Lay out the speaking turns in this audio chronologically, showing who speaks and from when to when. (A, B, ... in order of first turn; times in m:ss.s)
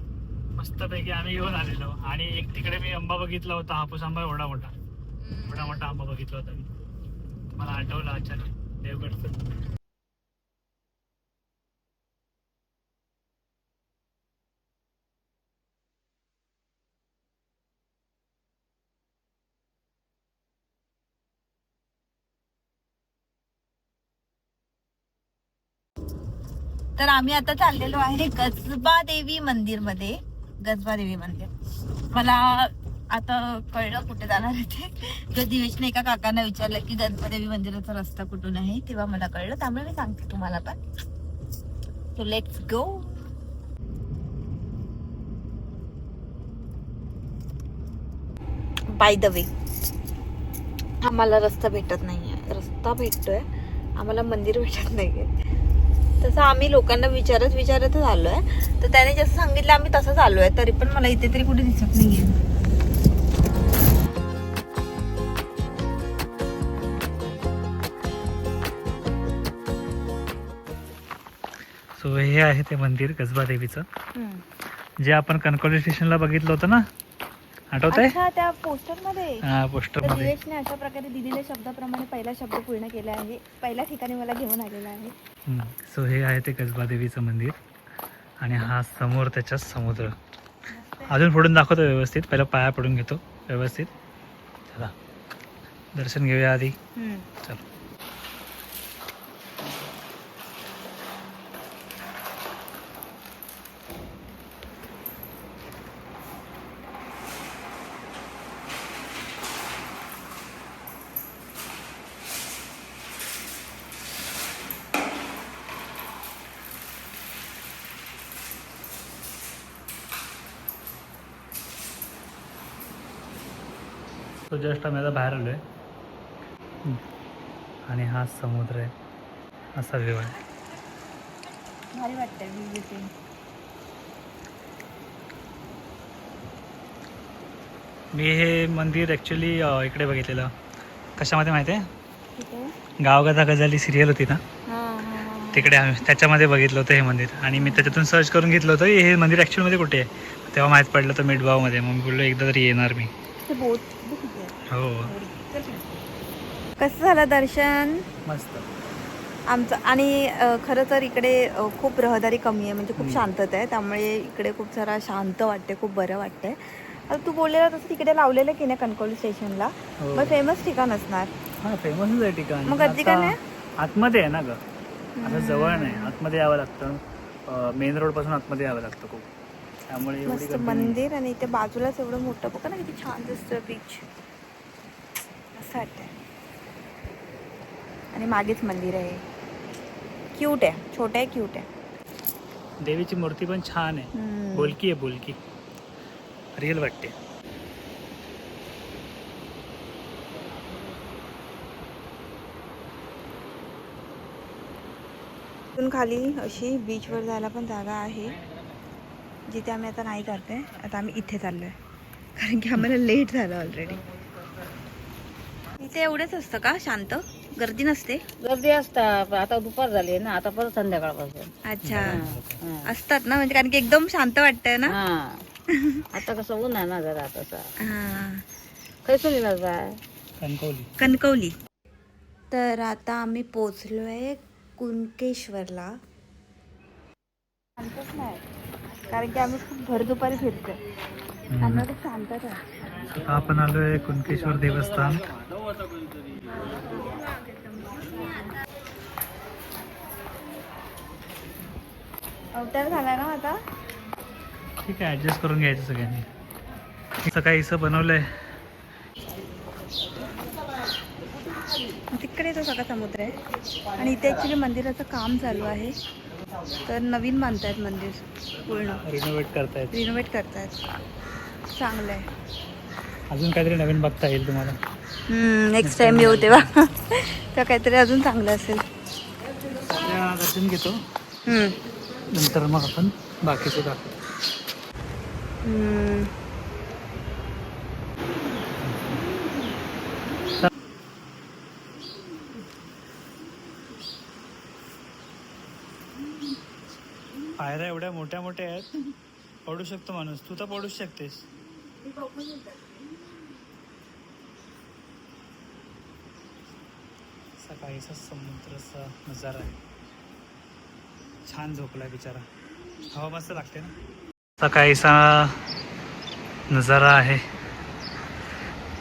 0:00.6-0:04.8 A
0:05.2-0:05.8 B
0:05.5-0:06.7 A
0:07.6-0:09.4 A
0:27.0-0:31.5 B
0:32.1-0:40.8 B
0:42.2-0:43.3 B
0:48.9-0:49.5 B
0:51.0-0:53.4 B
0:54.0-0:55.3 B
0:56.2-1:02.4 B
1:11.9-1:13.8 A
1:14.1-1:14.4 B
1:15.0-1:16.8 A
1:17.7-1:18.2 A
1:17.9-1:19.4 B
1:19.4-1:20.3 A
1:20.0-1:25.1 B
1:25.5-1:27.6 A
1:28.4-1:30.2 A
1:30.7-1:31.2 B
1:31.1-1:33.9 A
1:34.7-1:34.9 A
1:35.9-1:36.8 A
1:37.0-1:37.3 B
2:04.5-2:05.6 A
2:07.8-2:08.9 A
2:09.8-2:10.4 A
2:11.9-2:13.1 B
2:18.1-2:20.5 A
2:21.2-2:21.8 A
2:22.4-2:22.7 B
2:23.0-2:24.4 A
2:24.7-2:25.7 B
2:25.5-2:33.1 A
2:27.6-2:28.0 B
2:33.4-2:35.9 B
2:34.7-2:35.1 A
2:36.8-2:38.0 B
2:38.2-2:38.6 A
2:39.5-2:51.3 B
2:43.0-2:43.2 A
2:50.0-2:50.4 A
2:51.6-2:54.6 A
2:52.6-2:53.4 B
2:55.2-2:56.1 B
2:55.2-2:59.3 A
2:59.9-3:01.0 A
3:00.2-3:04.0 B
3:05.6-3:06.1 B
3:08.1-3:09.2 B
3:10.4-3:11.7 B
3:12.8-3:15.4 A
3:14.2-3:14.7 B
3:16.5-3:17.1 A
3:25.8-3:28.4 B
3:29.5-3:31.7 B
3:32.4-3:34.0 B
3:35.8-3:38.2 B
3:38.4-3:42.9 C
3:41.6-3:42.2 B
3:41.8-3:42.6 A
3:42.8-3:44.9 B
3:44.9-3:45.4 C
3:45.7-3:46.0 B
3:46.1-3:47.7 C
3:47.8-3:48.4 B
3:49.0-3:50.0 C
3:50.4-3:50.9 A
3:51.0-3:51.5 B
3:52.5-3:55.9 B
3:57.8-3:58.4 B
3:59.1-4:00.8 B
4:01.5-4:01.9 A
4:01.6-4:02.6 B
4:03.0-4:05.2 A
4:06.5-4:08.4 B
4:12.5-4:13.6 B
4:14.8-4:16.3 A
4:17.2-4:18.2 A
4:22.1-4:23.3 B
4:24.0-4:26.0 B
4:26.9-4:29.0 B
4:29.0-4:30.0 A
4:29.9-4:31.0 B
4:31.7-4:32.3 B
4:33.3-4:34.8 A
4:35.3-4:38.8 B
4:35.8-4:36.7 A
4:39.8-4:41.0 A
4:41.4-4:41.8 B
4:42.3-4:44.1 A
4:45.6-4:46.3 B
4:48.8-4:49.2 A
4:57.6-4:58.9 A
4:59.6-5:01.4 A
5:02.2-5:03.0 B
5:07.6-5:09.8 A
5:11.5-5:12.4 A
5:13.1-5:13.9 A
5:14.6-5:15.6 A
5:16.7-5:17.4 A